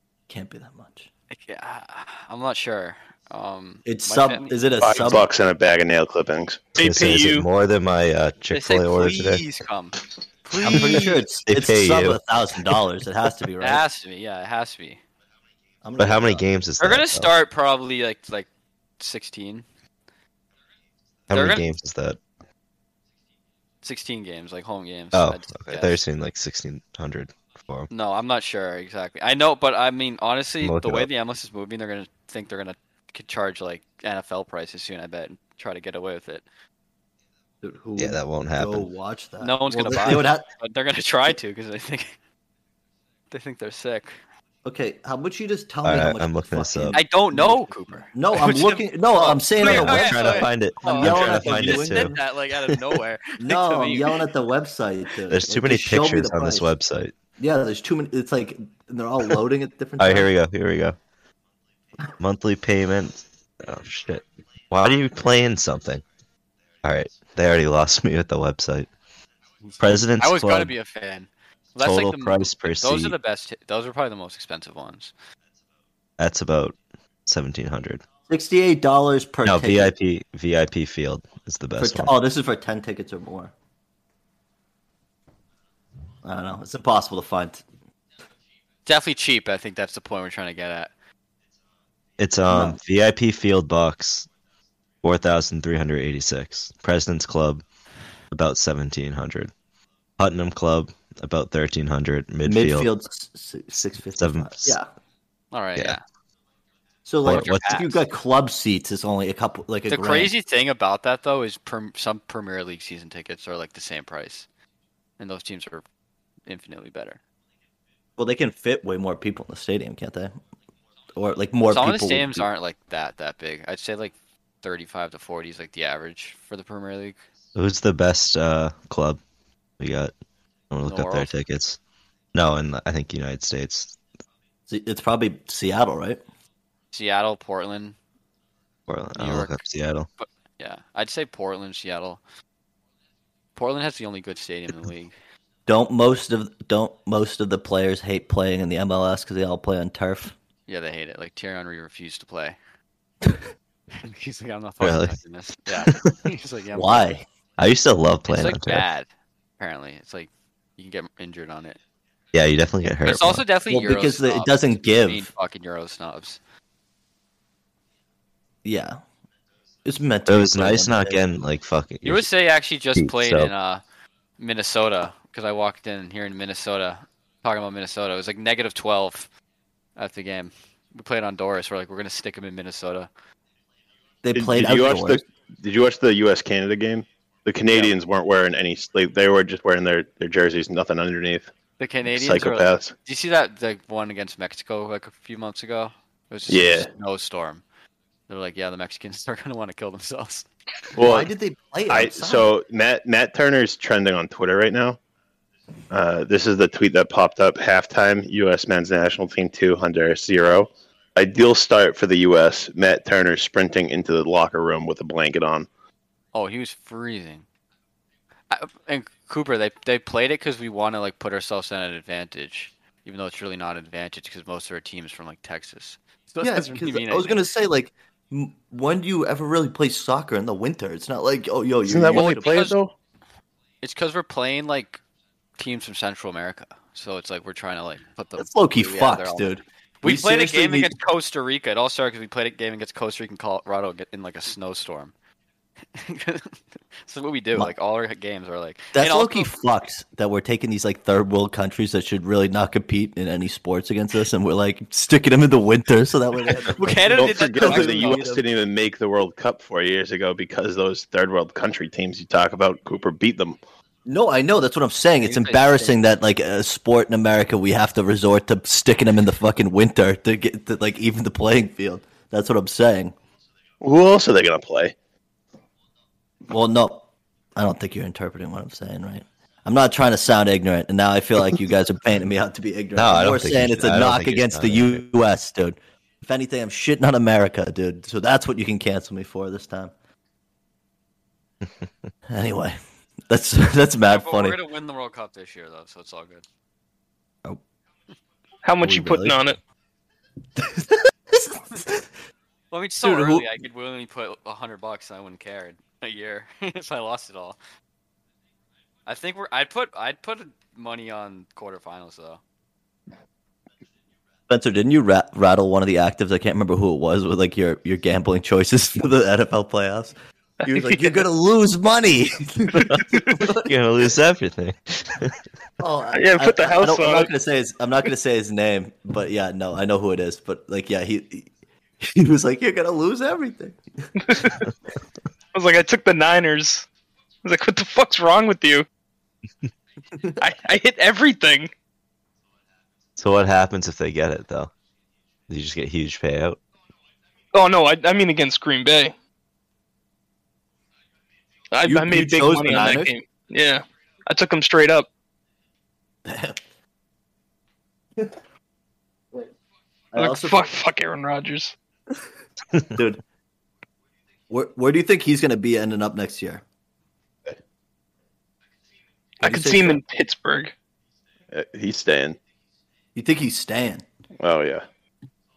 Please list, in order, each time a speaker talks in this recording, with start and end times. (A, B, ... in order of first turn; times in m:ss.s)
0:00.3-0:01.1 A
0:01.3-0:04.6 B
0:03.9-0:05.3 A
0:04.8-0:06.7 C
0:06.8-0:07.4 D
0:06.8-0:09.4 E
0:08.5-0:11.3 B
0:10.6-0:13.8 A
0:10.7-0:12.2 E
0:13.6-0:15.0 B
0:15.8-0:16.4 A
0:16.0-0:17.3 E
0:16.8-0:18.5 B
0:19.0-0:19.6 B
0:21.3-0:22.2 E
0:21.3-0:21.6 B
0:23.8-0:26.0 B
0:25.1-0:27.9 E
0:27.9-0:36.4 B
0:30.6-0:31.1 E
0:37.6-0:40.5 A
0:38.0-0:38.9 E
0:39.4-0:42.2 B
0:43.3-0:44.2 B
0:44.6-0:52.2 A
0:45.8-0:47.0 E
0:46.9-0:54.3 B
0:49.6-0:52.2 E
0:53.4-0:56.7 A
0:55.3-0:57.1 E
0:57.4-1:00.3 A
1:00.0-1:01.0 E
1:02.2-1:06.0 E
1:06.8-1:08.9 E
1:09.7-1:15.1 B
1:09.8-1:10.7 E
1:11.8-1:13.1 E
1:16.2-1:18.0 E
1:18.3-1:19.9 A
1:19.4-1:22.1 E
1:21.8-1:23.5 A
1:26.2-1:27.6 A
1:28.9-1:30.9 B
1:32.2-1:34.3 E
1:32.5-1:32.8 A
1:35.0-1:37.6 E
1:38.3-1:39.5 E
1:40.2-1:42.9 E
1:42.4-1:44.9 A
1:44.2-1:44.8 E
1:45.5-1:46.0 B
1:47.1-1:50.3 A
1:47.2-1:47.7 E
1:47.2-1:48.0 B
1:49.9-1:54.5 B
1:55.2-1:55.8 B
1:56.5-1:57.2 B
1:58.2-2:00.3 A
2:01.2-2:02.5 A
2:01.7-2:07.2 B
2:07.6-2:09.2 E
2:09.8-2:10.1 E
2:10.7-2:11.8 E
2:10.8-2:11.3 B
2:12.3-2:14.0 E
2:14.7-2:16.2 A
2:16.9-2:18.0 B
2:18.9-2:20.1 E
2:19.1-2:19.6 B
2:20.2-2:22.2 B
2:23.6-2:25.1 B
2:25.7-2:30.4 A
2:30.7-2:32.6 B
2:34.0-2:37.2 B
2:34.8-2:36.1 E
2:36.7-2:37.2 A
2:37.6-2:38.9 E
2:38.3-2:41.8 B
2:42.3-2:43.4 E
2:43.0-2:46.4 B
2:43.7-2:45.3 A
2:48.6-2:49.0 A
2:49.8-2:51.2 A
2:50.3-2:52.3 E
2:52.0-2:53.8 B
2:53.0-2:53.5 E
2:54.4-2:59.3 B
3:00.0-3:03.1 B
3:04.2-3:05.2 A
3:04.4-3:11.5 C
3:11.8-3:17.6 B
3:12.1-3:12.9 C
3:16.5-3:16.9 C
3:18.3-3:20.5 B
3:21.0-3:21.3 C
3:21.0-3:22.5 A
3:21.9-3:25.0 C
3:25.9-3:35.7 C
3:36.3-3:37.4 B
3:38.5-3:47.4 B
3:46.4-3:52.7 A
3:51.9-3:52.9 C
3:52.1-3:52.7 B
3:53.8-3:55.0 B
3:55.6-4:05.1 B
3:58.4-4:00.9 A
4:05.9-4:09.5 B
4:08.9-4:18.4 A
4:16.6-4:18.3 B
4:17.1-4:23.6 C
4:24.1-4:33.1 A
4:25.2-4:26.0 B
4:33.8-4:34.9 C
4:36.5-4:49.9 A
4:43.0-4:45.0 E
4:52.3-4:54.6 A
4:54.1-4:56.4 B
4:58.6-4:59.6 D
4:58.8-4:59.4 A
5:00.6-5:02.1 A
5:02.7-5:07.6 B
5:03.0-5:03.5 A
5:09.1-5:12.4 B
5:14.5-5:23.7 A
5:20.7-5:21.2 D
5:22.9-5:25.4 E
5:25.8-5:34.1 A
5:26.1-5:27.3 D
5:34.2-5:34.6 D
5:35.5-5:36.9 D
5:37.4-5:38.9 D
5:40.4-5:41.7 D
5:43.2-5:44.7 E
5:45.5-5:46.6 E
5:47.5-5:49.1 D
5:51.7-5:55.1 D
5:51.8-5:53.1 A
5:56.2-5:56.6 A
6:00.1-6:00.6 A
6:00.2-6:01.7 D
6:02.9-6:03.2 A
6:04.5-6:06.6 A
6:09.4-6:10.0 A
6:09.4-6:10.7 D
6:11.5-6:12.4 C
6:13.1-6:14.0 A
6:14.4-6:14.8 C